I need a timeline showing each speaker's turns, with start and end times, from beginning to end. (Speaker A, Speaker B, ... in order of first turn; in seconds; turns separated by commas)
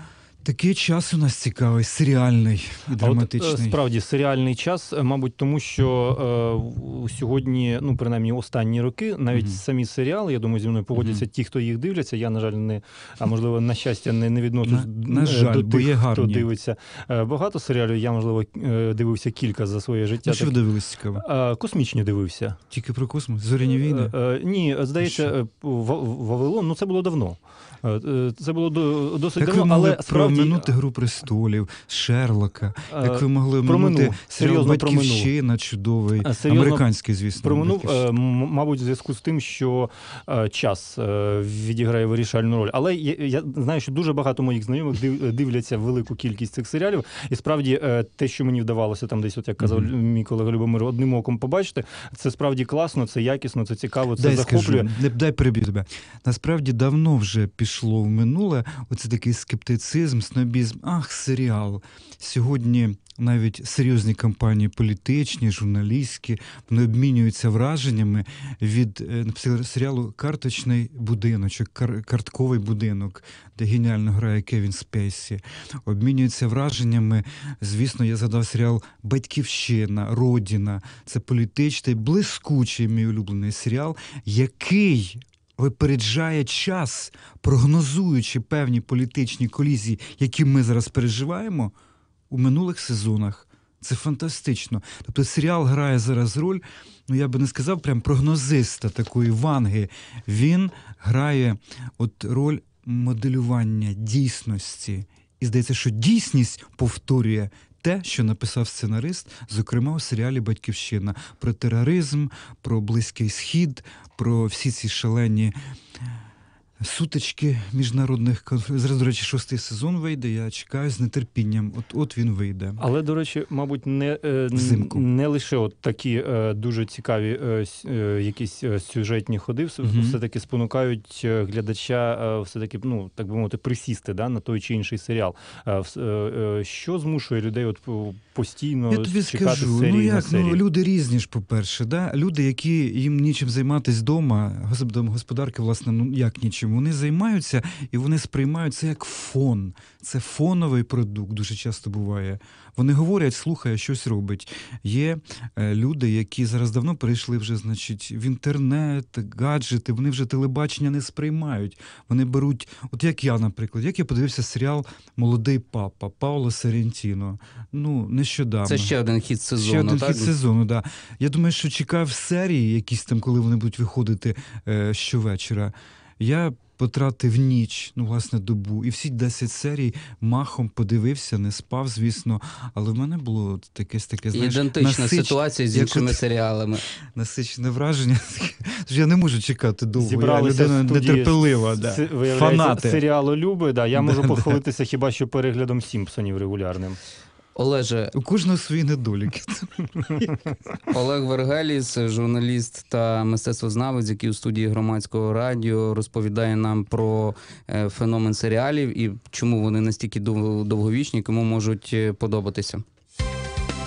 Speaker A: 0.4-3.8, Speaker B: 3.0-22.6, Speaker A: 9.3-9.6, Speaker A: 10.9-11.3, Speaker A: 14.6-16.5, Speaker A: 20.2-21.2, Speaker A: 22.7-24.1, Speaker B: 23.6-30.8, Speaker A: 25.0-25.3, Speaker A: 29.4-38.1, Speaker B: 32.9-35.3, Speaker B: 36.2-54.9, Speaker A: 49.6-49.9, Speaker A: 54.2-91.7, Speaker A: 92.3-115.5, Speaker A: 116.8-122.8, Speaker B: 122.8-140.6, Speaker A: 124.5-125.0, Speaker A: 129.8-130.2, Speaker A: 138.9-168.9, Speaker C: 168.7-170.3, Speaker A: 169.6-186.2, Speaker C: 184.3-186.8, Speaker A: 187.2-193.0, Speaker B: 190.0-197.0, Speaker A: 193.9-194.6, Speaker C: 197.6-198.2, Speaker A: 198.1-200.3, Speaker C: 200.9-212.8